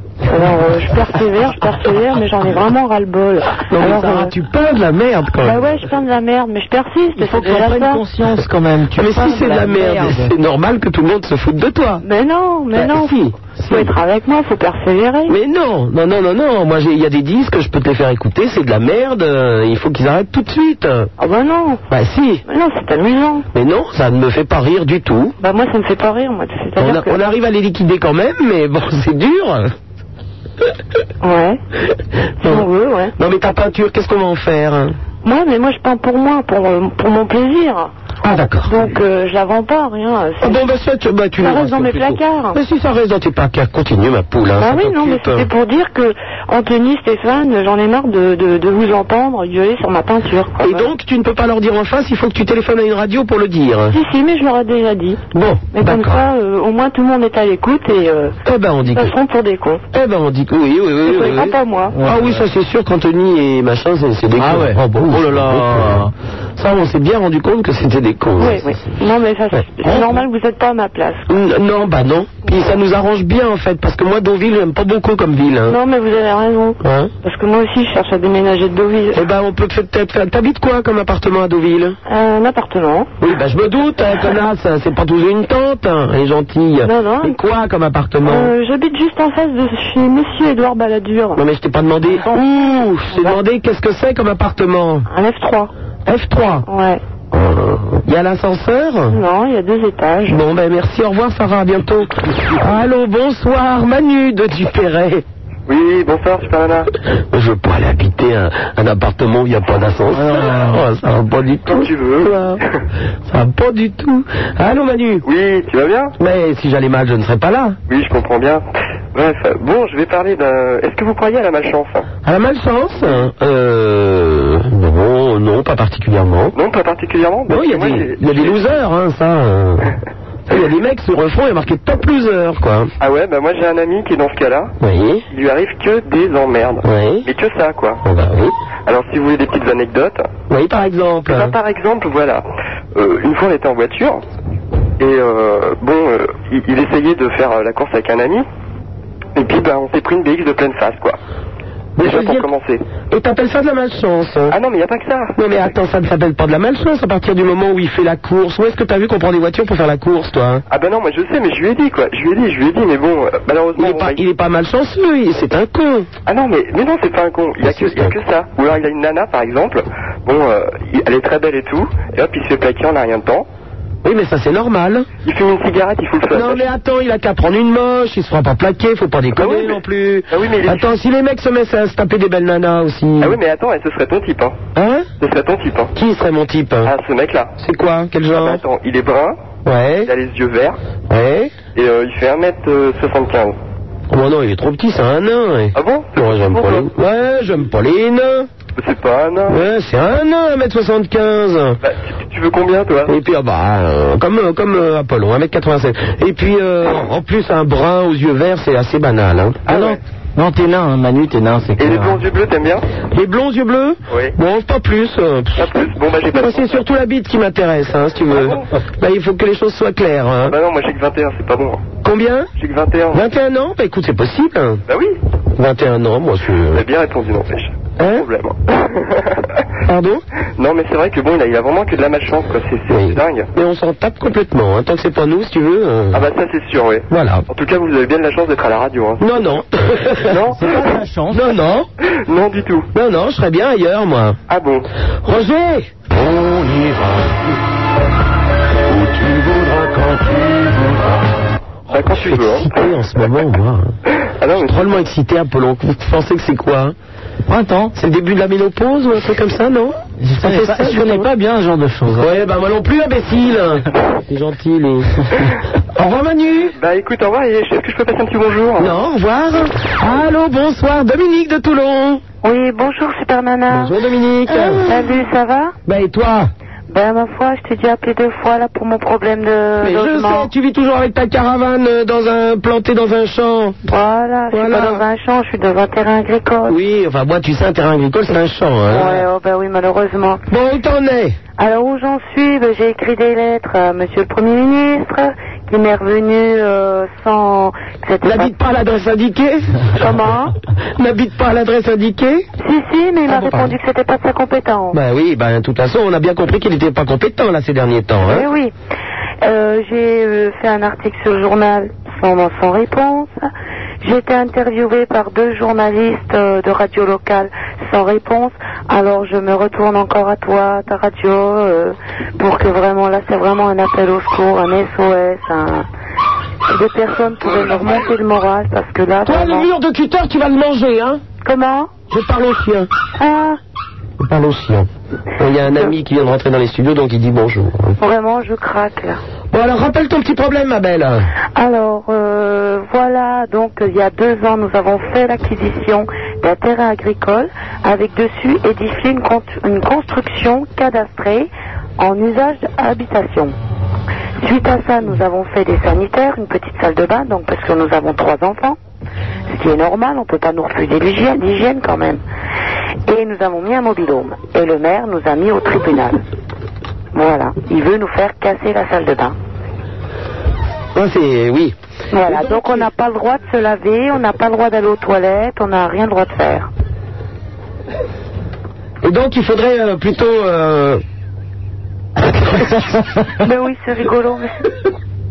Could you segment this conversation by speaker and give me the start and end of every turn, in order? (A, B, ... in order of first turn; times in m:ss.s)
0:00.3-0:04.3 A
0:03.7-0:05.7 B
0:05.4-0:08.0 A
0:07.2-0:10.3 C
0:09.0-0:12.0 B
0:12.0-0:13.2 A
0:12.7-0:13.9 C
0:12.8-0:14.0 B
0:13.7-0:15.4 A
0:15.3-0:21.1 B
0:21.2-0:21.8 A
0:21.9-0:22.4 B
0:22.5-0:23.5 A
0:23.5-0:25.4 B
0:25.4-0:27.2 A
0:26.8-0:29.7 B
0:31.2-0:31.6 A
0:32.4-0:35.0 B
0:32.4-0:33.1 A
0:35.2-0:37.9 A
0:38.2-0:38.8 B
0:38.7-0:40.6 A
0:40.4-0:45.5 B
0:41.4-0:42.6 A
0:44.6-0:50.9 A
0:50.6-0:54.0 B
0:53.9-0:55.2 A
0:55.3-0:56.2 B
0:55.7-0:58.3 A
0:58.4-0:59.1 B
0:58.8-0:59.8 A
0:59.9-1:06.0 B
1:01.0-1:02.0 A
1:01.9-1:02.4 C
1:04.4-1:06.1 C
1:06.6-1:08.7 B
1:08.4-1:11.3 A
1:09.5-1:10.2 B
1:11.3-1:15.8 B
1:15.7-1:19.2 A
1:16.8-1:17.1 B
1:19.1-1:22.0 B
1:22.1-1:23.1 A
1:23.2-1:28.6 B
1:26.8-1:27.4 A
1:28.2-1:31.4 A
1:31.4-1:35.1 B
1:32.1-1:32.4 A
1:33.1-1:33.4 A
1:35.1-1:35.7 A
1:36.1-1:36.7 B
1:36.7-1:37.0 A
1:37.3-1:39.2 B
1:39.1-1:40.4 A
1:40.3-1:45.2 B
1:45.7-1:46.9 D
1:47.3-1:52.6 B
1:50.1-1:50.8 C
1:51.7-1:52.3 D
1:53.3-1:55.2 B
1:55.2-1:56.2 D
1:56.2-1:57.8 B
1:57.9-1:58.6 D
1:59.1-2:02.1 D
2:02.2-2:06.6 B
2:06.6-2:08.8 D
2:07.5-2:09.9 B
2:10.5-2:12.9 B
2:13.0-2:14.7 D
2:14.8-2:15.2 B
2:15.3-2:18.0 D
2:16.8-2:17.3 B
2:18.0-2:18.5 B
2:18.9-2:20.3 D
2:20.5-2:21.6 B
2:21.3-2:22.4 D
2:23.0-2:24.2 D
2:25.0-2:28.5 D
2:29.4-2:31.2 D
2:32.0-2:32.4 B
2:32.0-2:32.8 D
2:33.1-2:34.6 B
2:34.5-2:35.4 D
2:35.4-2:40.6 B
2:40.7-2:44.2 D
2:43.8-2:46.1 B
2:46.3-2:53.5 D
2:47.6-2:48.2 B
2:54.0-2:55.1 B
2:55.2-2:56.7 D
2:56.3-3:03.4 B
2:59.4-3:01.0 D
3:03.2-3:04.6 D
3:04.8-3:05.1 B
3:05.2-3:05.9 D
3:05.9-3:06.9 B
3:06.8-3:07.6 D
3:07.6-3:08.6 B
3:08.3-3:09.4 D
3:09.6-3:10.1 B
3:10.0-3:10.8 D
3:11.1-3:11.6 B
3:11.8-3:13.6 D
3:14.1-3:18.5 B
3:15.8-3:16.9 D
3:18.8-3:19.6 D
3:19.5-3:21.8 B
3:21.8-3:23.1 D
3:23.1-3:30.0 B
3:29.7-3:30.0 D
3:30.4-3:32.2 C
3:31.8-3:32.9 D
3:33.1-3:35.8 B
3:35.6-3:36.8 D
3:36.3-3:40.6 B
3:38.3-3:38.7 D
3:40.4-3:41.8 D
3:42.0-3:42.5 B
3:42.6-3:43.3 D
3:43.1-3:44.8 B
3:44.9-3:45.2 D
3:45.6-3:46.8 B
3:46.7-3:49.6 D
3:48.0-3:48.3 B
3:49.8-3:50.2 B
3:50.6-3:53.5 D
3:52.9-3:56.2 B
3:56.1-3:59.6 D
3:57.1-3:57.4 B
3:59.2-4:00.4 B
4:00.2-4:01.0 D
4:00.5-4:01.5 C
4:01.3-4:01.9 B
4:02.0-4:02.9 D
4:02.9-4:04.4 B
4:04.5-4:04.9 D
4:05.2-4:05.9 B
4:06.2-4:07.4 E
4:08.9-4:11.0 E
4:11.9-4:12.7 D
4:12.0-4:14.0 B
4:14.2-4:15.0 D
4:14.6-4:17.0 B
4:17.4-4:17.9 C
4:18.0-4:21.3 B
4:20.2-4:22.3 C
4:22.2-4:25.2 B
4:26.0-4:26.7 B
4:26.8-4:29.0 D
4:28.8-4:32.2 B
4:32.4-4:33.9 A
4:33.7-4:35.0 B
4:34.6-4:35.8 A
4:35.9-4:36.5 B
4:36.9-4:40.5 A
4:39.8-4:43.8 B
4:43.9-4:46.8 A
4:44.5-4:45.0 B
4:46.7-4:49.3 B
4:48.9-4:50.4 A
4:50.5-4:51.4 B
4:51.6-4:58.6 A
4:58.2-5:00.1 B
5:00.0-5:00.5 A
5:01.0-5:02.5 B
5:02.6-5:05.0 A
5:03.3-5:03.8 B
5:04.9-5:08.5 B
5:08.2-5:08.7 A
5:09.4-5:13.5 A
5:14.0-5:25.9 A
5:26.7-5:29.7 A
5:29.2-5:31.2 B
5:31.4-5:31.9 A
5:32.1-5:32.9 B
5:33.2-5:33.6 A
5:34.2-5:38.0 B
5:38.0-5:39.2 A
5:39.5-5:41.3 B
5:41.6-5:53.5 A
5:54.4-5:58.8 A
5:59.5-6:02.2 A
6:03.1-6:06.2 A
6:07.1-6:09.4 A
6:11.0-6:12.9 B
6:12.1-6:16.7 A
6:19.0-6:21.0 B
6:22.4-6:22.7 B
6:23.4-6:24.7 A